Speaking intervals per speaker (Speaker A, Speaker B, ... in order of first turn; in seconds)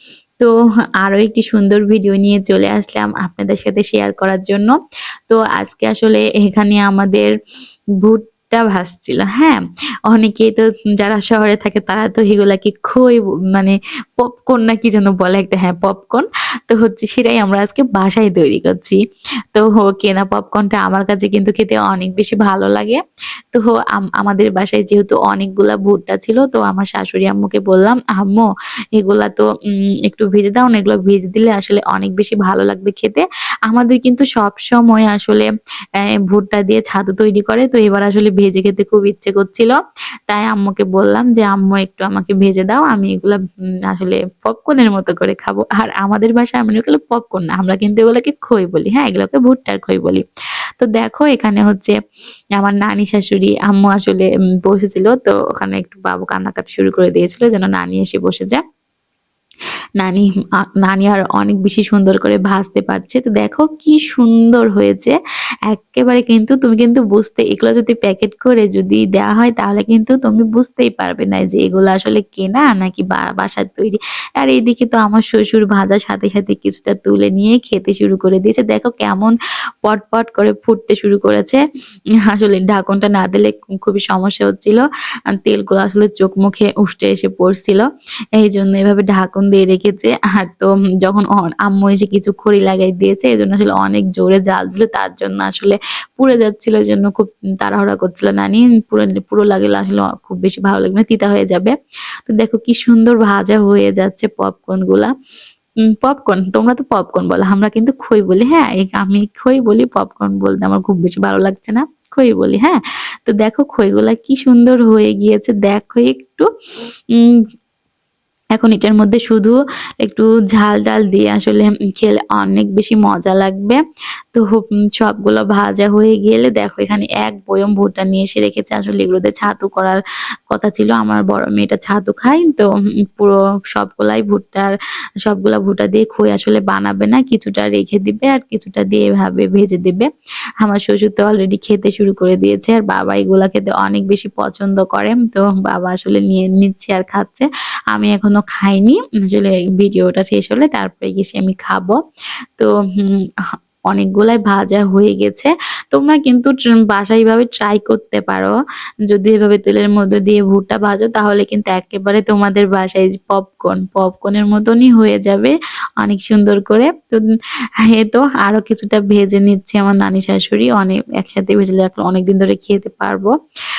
Speaker A: 1.0-4.7, 5.3-7.3, 8.0-9.6, 10.1-19.0, 19.5-23.0, 23.5-29.4, 30.1-35.5, 36.3-39.7, 40.3-50.2, 50.8-51.9, 52.6-58.6, 60.8-65.1, 65.7-79.3, 79.8-81.6, 82.3-87.9, 88.4-101.7, 102.3-105.1, 106.0-116.5, 118.5-123.8, 124.3-130.0, 130.5-132.6, 133.2-134.7, 135.2-140.1, 140.6-152.0, 152.6-153.1, 153.9-158.5, 159.1-167.2, 167.9-173.3